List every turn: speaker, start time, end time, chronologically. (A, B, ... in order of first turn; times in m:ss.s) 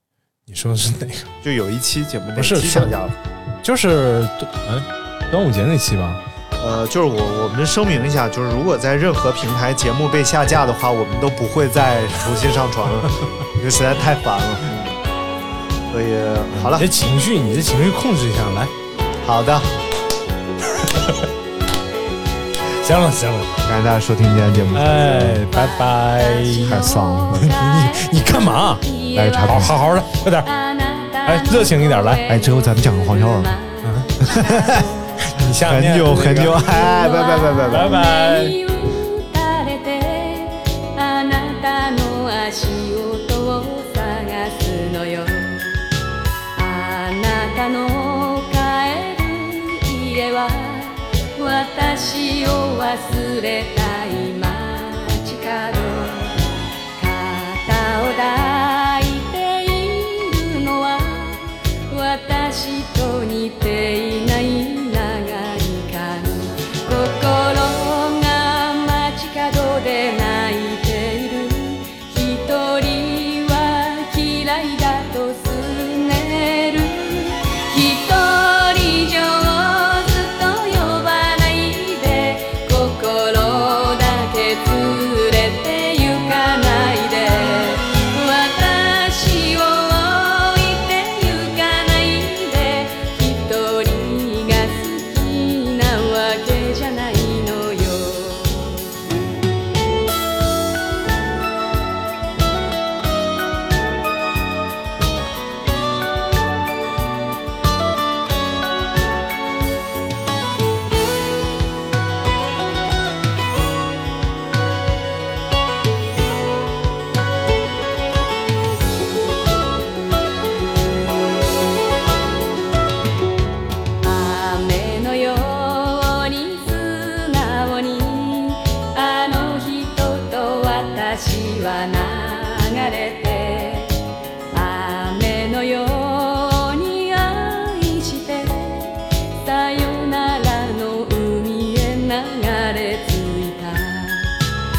0:00.5-0:01.3 A
0:01.4-0:03.2 B
0:02.4-0:02.9 A
0:03.6-0:06.2 A
0:06.6-0:14.8 B
0:15.9-0:16.9 B
0:16.6-0:18.7 A
0:19.2-0:19.7 B
0:20.8-0:21.2 A
0:22.8-0:23.6 A
0:23.7-0:25.4 B
0:24.7-0:26.9 A
0:25.5-0:29.7 C
0:26.7-0:27.5 B
0:27.4-0:28.8 A
0:29.1-0:29.8 B
0:29.4-0:30.5 A
0:30.4-0:35.2 C
0:31.2-0:32.2 A
0:32.3-0:33.5 B
0:34.3-0:34.8 B
0:35.2-0:36.9 A
0:35.6-0:38.0 B
0:36.7-0:45.8 C
0:37.7-0:38.6 A
0:46.6-1:38.9 C
2:04.0-2:14.0 C
2:14.5-2:24.4 C